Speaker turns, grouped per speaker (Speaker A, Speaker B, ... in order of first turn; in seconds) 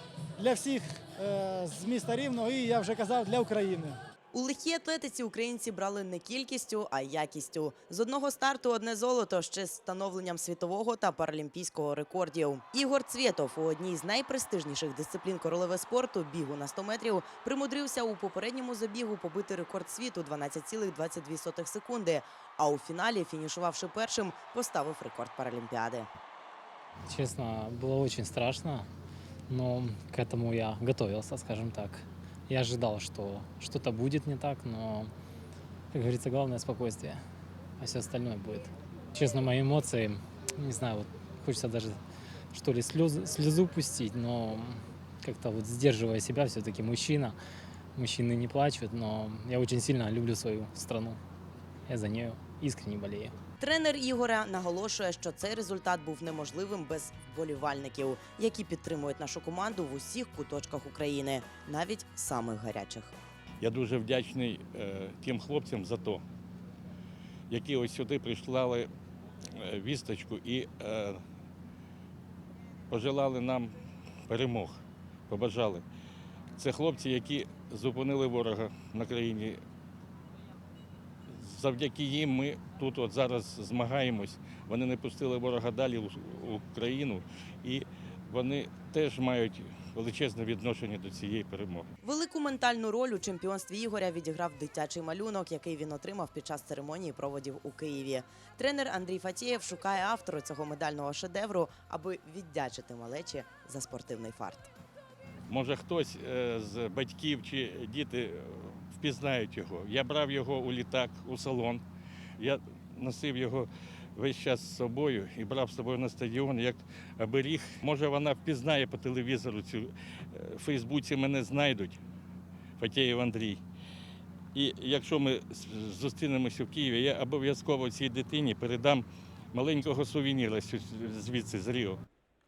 Speaker A: 0.4-4.0
Speaker B: 4.3-26.1, 53.6-63.1, 92.0-104.7
Speaker C: 27.1-28.9, 29.5-35.1, 35.9-37.2, 37.8-42.0, 42.5-47.4, 48.0-51.2, 51.9-53.4
Speaker D: 63.6-66.2, 67.5-68.9, 69.6-71.2, 72.9-73.7, 74.3-75.8, 76.6-79.6, 81.4-91.9, 105.5-111.8, 112.4-122.0, 122.8-123.6, 124.5-132.0